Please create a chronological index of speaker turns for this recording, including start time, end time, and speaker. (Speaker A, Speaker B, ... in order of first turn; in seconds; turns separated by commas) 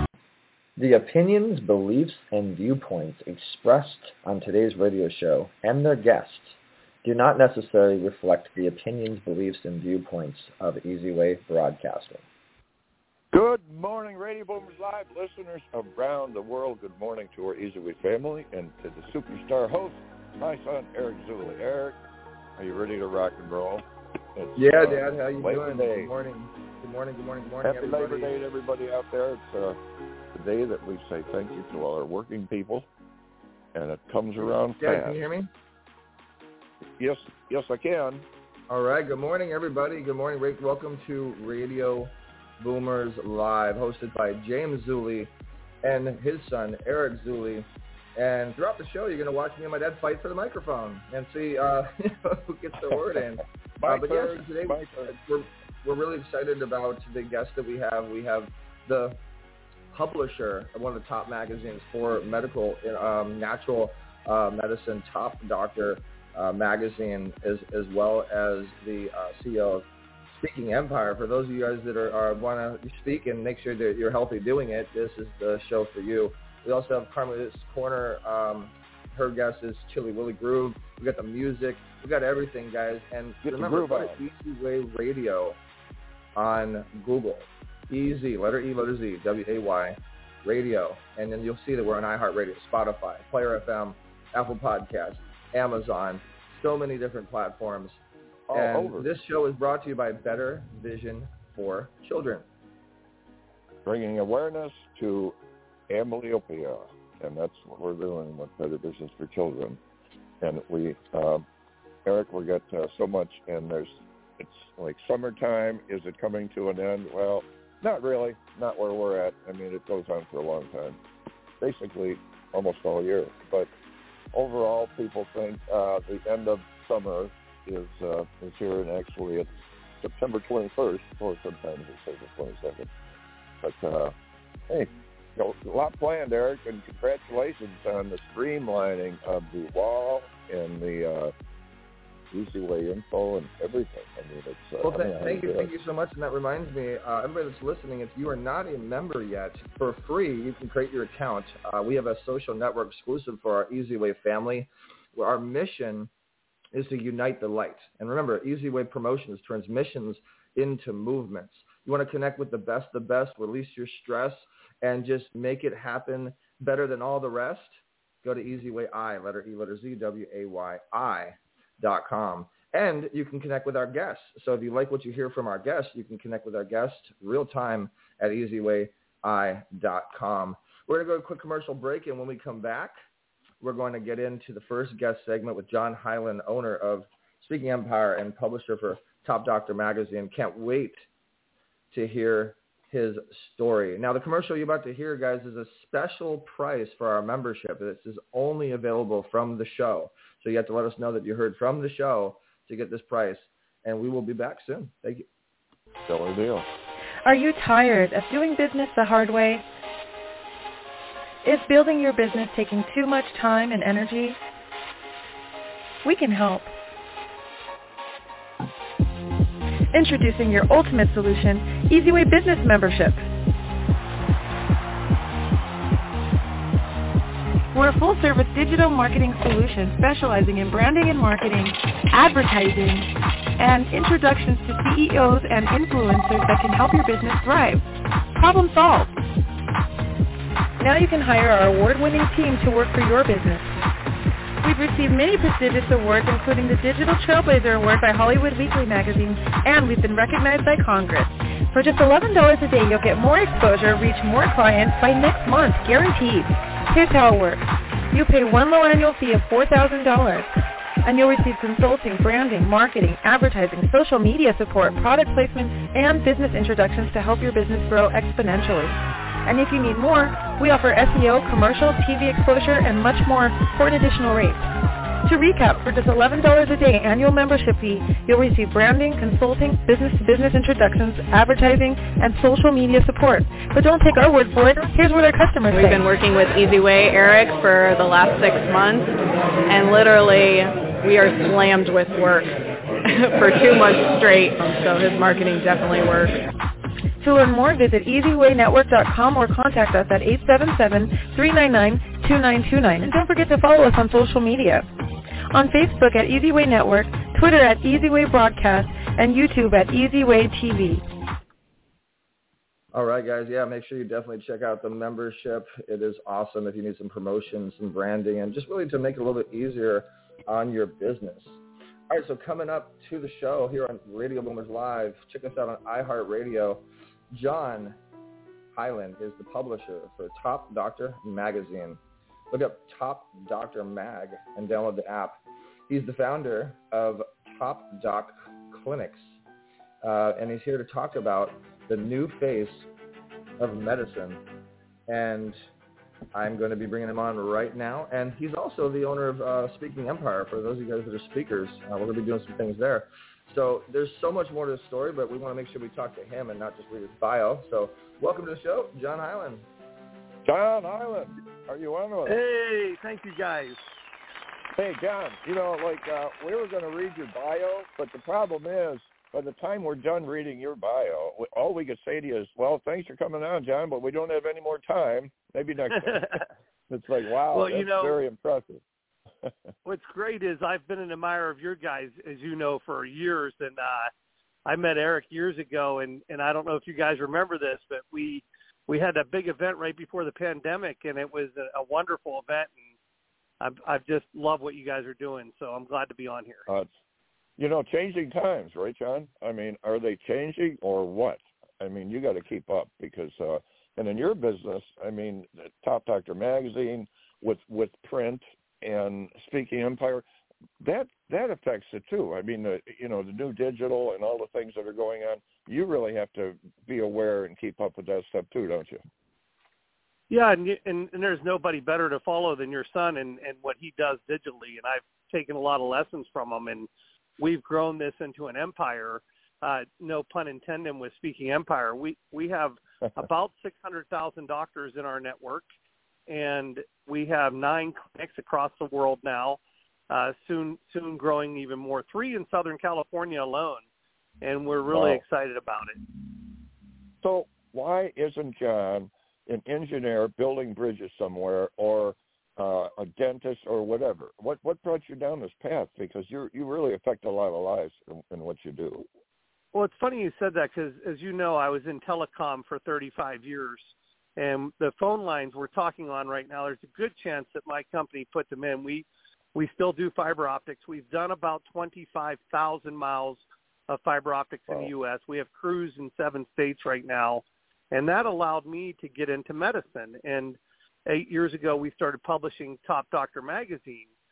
Speaker A: 0.8-12.2, Speaker B: 13.3-22.0, Speaker B: 22.6-26.1, Speaker A: 24.6-28.3, Speaker B: 27.6-29.8, Speaker B: 30.3-32.9, Speaker B: 33.7-35.2, Speaker A: 34.8-35.5, Speaker B: 37.0-38.2, Speaker A: 38.7-45.3, Speaker A: 45.8-59.2, Speaker B: 52.9-53.2, Speaker B: 53.8-55.1, Speaker A: 59.9-85.6, Speaker B: 83.4-84.2, Speaker A: 86.3-98.0, Speaker B: 98.5-99.1, Speaker A: 98.5-102.4, Speaker B: 103.8-105.3, Speaker B: 105.9-109.8, Speaker B: 110.4-111.5, Speaker B: 112.0-121.0, Speaker B: 121.6-123.7, Speaker B: 124.3-129.5, Speaker B: 130.0-132.9, Speaker B: 133.6-134.1, Speaker B: 134.7-141.3, Speaker B: 142.3-145.7, Speaker A: 144.8-156.1, Speaker A: 156.7-182.9, Speaker A: 183.6-191.0, Speaker A: 191.9-205.2, Speaker B: 206.1-206.7, Speaker C: 207.2-209.6, Speaker C: 211.4-214.4, Speaker C: 216.0-216.7, Speaker C: 219.9-223.3, Speaker C: 227.7-237.8, Speaker C: 238.3-239.2, Speaker C: 240.8-243.7, Speaker C: 244.6-260.5, Speaker C: 261.0-274.6, Speaker C: 275.2-286.1, Speaker D: 285.7-289.1, Speaker D: 289.7-292.5, Speaker D: 293.0-296.4, Speaker C: 297.2-304.9, Speaker C: 305.5-311.0, Speaker A: 312.9-328.0, Speaker A: 328.7-332.0, Speaker A: 332.5-339.4, Speaker A: 340.0-342.9, Speaker A: 343.6-344.4, Speaker A: 345.1-345.6, Speaker A: 346.3-359.6, Speaker B: 360.4-362.4, Speaker E: 362.3-363.8, Speaker B: 364.7-378.8, Speaker E: 376.1-376.4, Speaker E: 377.5-378.1, Speaker E: 379.8-384.1, Speaker E: 384.6-392.8, Speaker E: 393.6-396.6, Speaker B: 397.6-410.2, Speaker B: 410.8-419.0, Speaker E: 420.3-435.6, Speaker E: 436.3-443.9, Speaker E: 444.4-446.0, Speaker B: 444.9-445.2, Speaker B: 447.2-459.0, Speaker E: 459.7-484.1